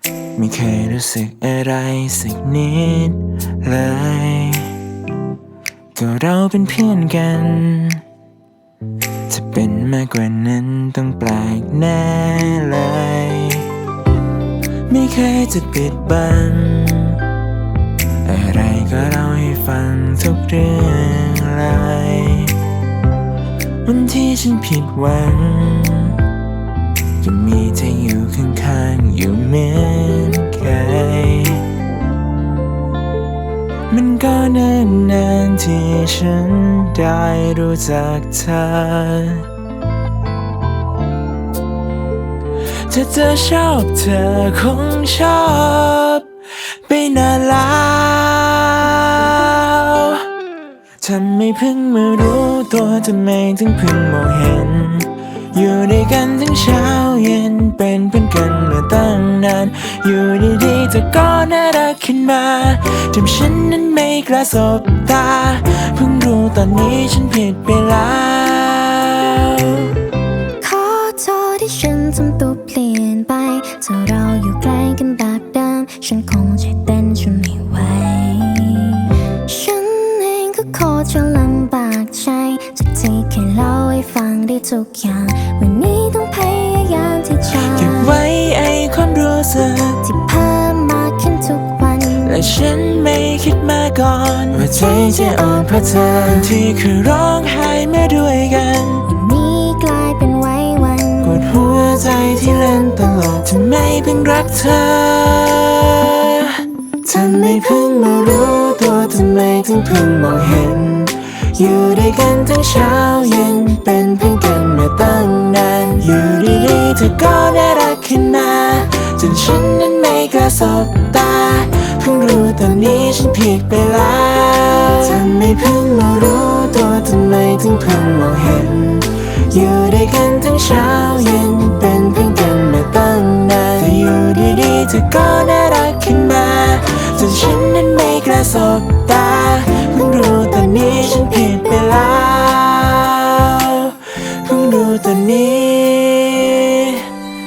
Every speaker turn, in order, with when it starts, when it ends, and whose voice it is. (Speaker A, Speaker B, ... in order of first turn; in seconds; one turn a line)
Speaker A: 0.3-4.8
Speaker A: 6.0-8.0
Speaker A: 9.3-13.7
Speaker A: 14.9-17.2
Speaker A: 18.2-22.6
Speaker A: 23.9-26.2
Speaker A: 27.2-31.7
Speaker A: 33.9-39.5
Speaker A: 42.9-50.3
Speaker A: 51.0-70.0
Speaker B: 70.6-88.2
Speaker A: 87.6-90.0
Speaker B: 90.0-92.5
Speaker A: 92.2-99.1
Speaker B: 94.7-96.1
Speaker B: 99.1-101.4
Speaker A: 101.2-147.1